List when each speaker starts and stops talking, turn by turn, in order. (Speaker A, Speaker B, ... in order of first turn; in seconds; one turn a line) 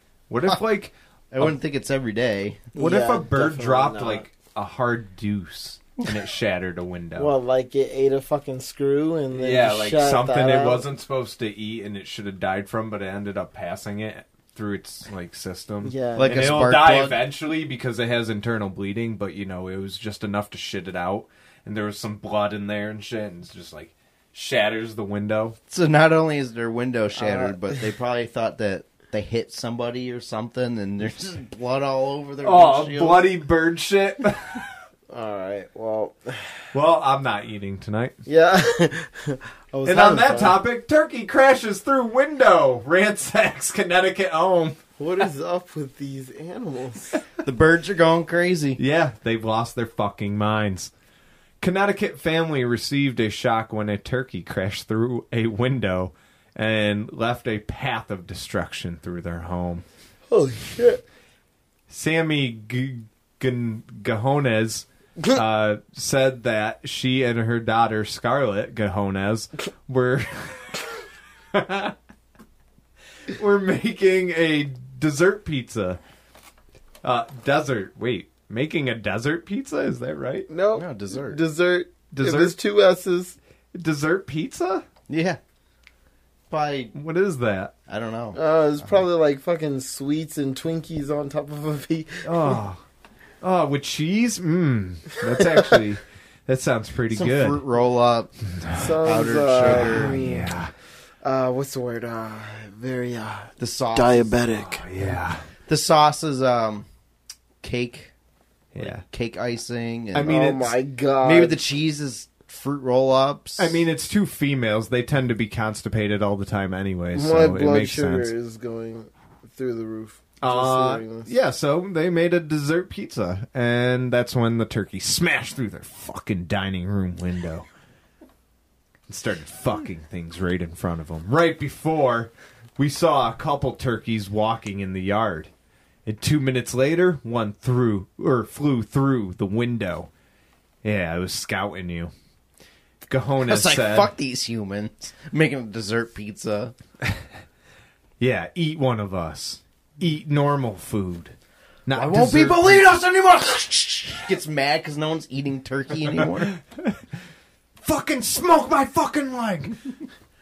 Speaker A: 0.3-1.5
Speaker B: 1.3-2.7
Speaker C: 2.8-4.3
Speaker A: 2.8-7.3
Speaker C: 7.2-10.8
Speaker A: 9.3-25.6
Speaker C: 15.8-16.4
Speaker B: 16.1-17.3
Speaker B: 25.7-33.3
Speaker C: 27.2-27.8
Speaker A: 32.4-34.7
Speaker C: 35.1-36.6
Speaker A: 36.7-38.1
Speaker C: 38.3-40.6
Speaker A: 39.9-44.8
Speaker C: 45.0-47.2
Speaker B: 47.4-48.8
Speaker A: 48.8-50.9
Speaker A: 51.6-59.9
Speaker C: 60.3-61.0
Speaker A: 61.9-70.9
Speaker A: 71.5-72.0
Speaker A: 73.3-76.0
Speaker A: 77.0-80.5
Speaker C: 80.5-83.4
Speaker B: 80.7-81.4
Speaker A: 82.1-82.6
Speaker A: 83.7-84.8
Speaker B: 85.1-85.4
Speaker B: 86.5-86.9
Speaker A: 87.0-87.7
Speaker B: 87.9-89.1
Speaker C: 88.3-92.6
Speaker A: 92.2-92.8
Speaker A: 93.4-97.6
Speaker C: 95.4-95.8
Speaker B: 97.1-98.3
Speaker A: 98.5-99.0
Speaker C: 98.8-100.5
Speaker B: 99.0-100.2
Speaker A: 99.6-100.7
Speaker C: 101.2-104.9
Speaker B: 103.6-104.3
Speaker A: 104.5-105.4
Speaker B: 105.7-106.9
Speaker B: 107.6-108.1
Speaker A: 108.7-109.0
Speaker B: 108.8-110.3
Speaker A: 110.1-110.8
Speaker C: 110.2-111.6
Speaker B: 111.2-113.8
Speaker A: 113.6-118.3
Speaker C: 117.1-121.3
Speaker A: 120.4-127.7
Speaker A: 129.1-135.5
Speaker A: 136.1-140.1
Speaker A: 140.8-142.1
Speaker A: 143.1-144.1
Speaker B: 143.4-146.7
Speaker A: 148.2-151.3
Speaker A: 151.9-152.9
Speaker B: 151.9-156.6
Speaker A: 157.8-159.9